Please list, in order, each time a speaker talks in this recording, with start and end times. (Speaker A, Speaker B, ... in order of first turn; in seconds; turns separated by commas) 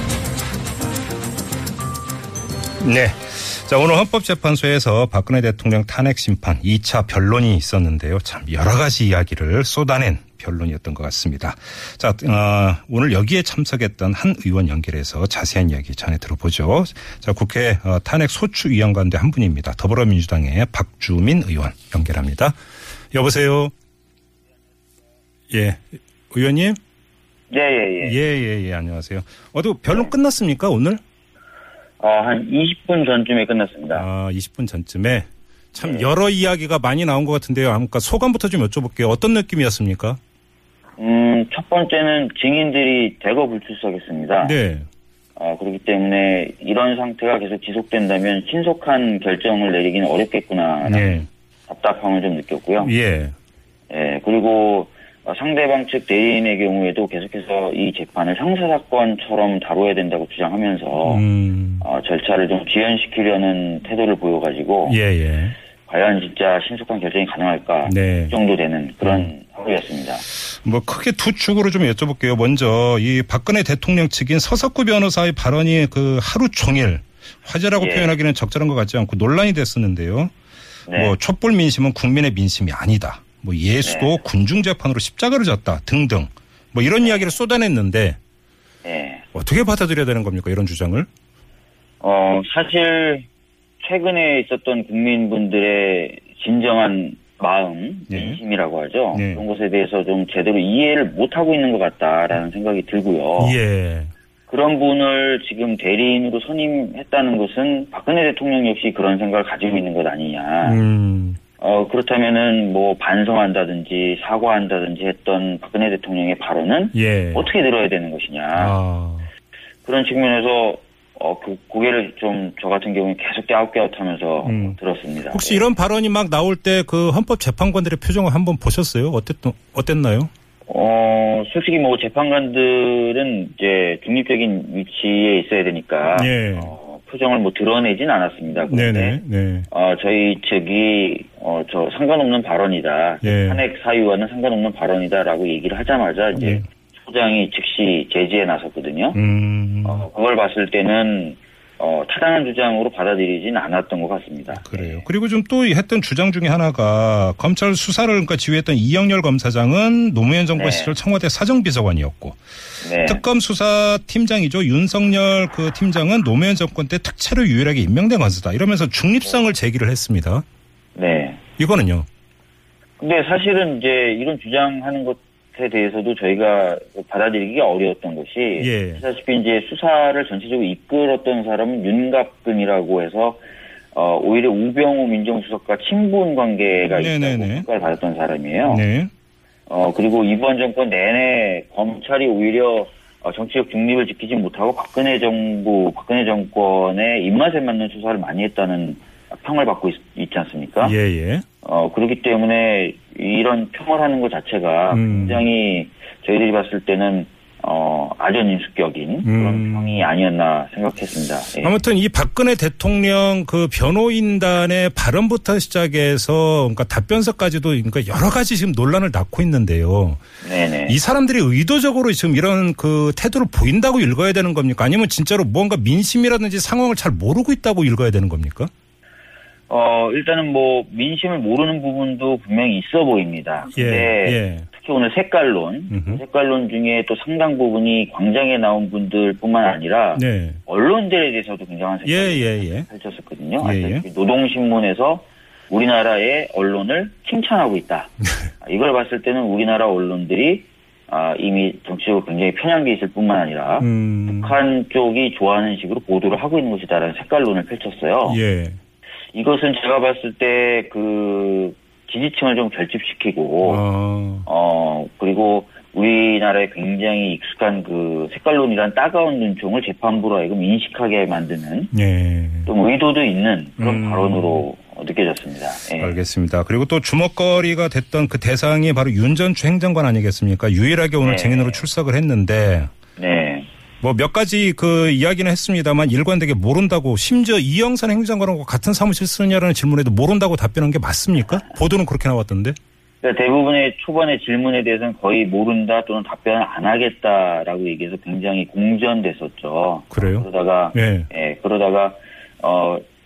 Speaker A: 2.8-22.6, Speaker A: 23.1-23.7, Speaker A: 25.5-26.8, Speaker B: 27.5-28.2, Speaker A: 28.0-31.0, Speaker B: 32.0-34.1, Speaker A: 33.9-40.2, Speaker B: 35.8-36.1, Speaker B: 41.0-44.6, Speaker A: 44.4-44.9, Speaker B: 45.4-52.9, Speaker A: 50.8-51.3, Speaker A: 52.8-53.3, Speaker B: 53.9-61.3, Speaker A: 61.0-61.9, Speaker B: 61.8-65.0, Speaker A: 64.9-65.5, Speaker B: 65.9-70.3, Speaker A: 67.9-68.4, Speaker A: 69.0-69.3, Speaker A: 70.3-80.3, Speaker B: 77.8-78.2, Speaker B: 80.9-81.2, Speaker A: 80.9-88.2, Speaker B: 83.8-84.2, Speaker B: 87.0-87.4, Speaker B: 88.8-89.2, Speaker A: 89.3-91.1, Speaker B: 92.0-93.3, Speaker B: 93.8-103.6, Speaker A: 98.1-98.4, Speaker A: 99.1-99.4, Speaker A: 103.4-104.1, Speaker B: 104.5-110.8, Speaker A: 110.6-111.4, Speaker B: 111.6-118.8, Speaker A: 116.9-117.5, Speaker A: 118.5-119.3, Speaker B: 119.8-125.7, Speaker A: 124.4-124.8, Speaker A: 125.3-130.3, Speaker B: 130.7-149.2, Speaker A: 136.1-136.7, Speaker A: 138.7-139.7, Speaker A: 143.2-143.6, Speaker A: 146.4-146.7, Speaker A: 149.2-150.1, Speaker B: 149.8-155.1, Speaker A: 154.5-162.4, Speaker B: 160.6-161.0, Speaker B: 162.8-163.2, Speaker A: 163.0-170.4, Speaker B: 170.9-171.4, Speaker A: 171.6-172.1, Speaker B: 173.0-188.8, Speaker A: 178.6-179.0, Speaker A: 186.9-187.7, Speaker A: 188.7-189.1, Speaker B: 189.7-201.0, Speaker A: 200.8-201.4, Speaker B: 201.6-211.8, Speaker A: 204.9-205.4, Speaker A: 209.2-210.1, Speaker A: 211.6-220.2, Speaker B: 220.4-221.0, Speaker A: 220.9-228.7, Speaker B: 229.7-258.4, Speaker A: 233.8-234.7, Speaker A: 235.9-236.2, Speaker A: 240.2-240.6, Speaker A: 242.1-242.9, Speaker A: 243.6-244.1, Speaker A: 253.8-254.6, Speaker A: 258.2-258.8, Speaker B: 259.3-263.8, Speaker A: 263.6-264.5, Speaker B: 264.5-271.9, Speaker A: 271.9-272.7, Speaker B: 272.7-276.2, Speaker A: 273.8-274.6, Speaker A: 276.0-282.9, Speaker B: 281.2-281.9, Speaker B: 283.2-283.7, Speaker A: 284.0-292.8, Speaker B: 293.2-303.0, Speaker A: 300.1-301.3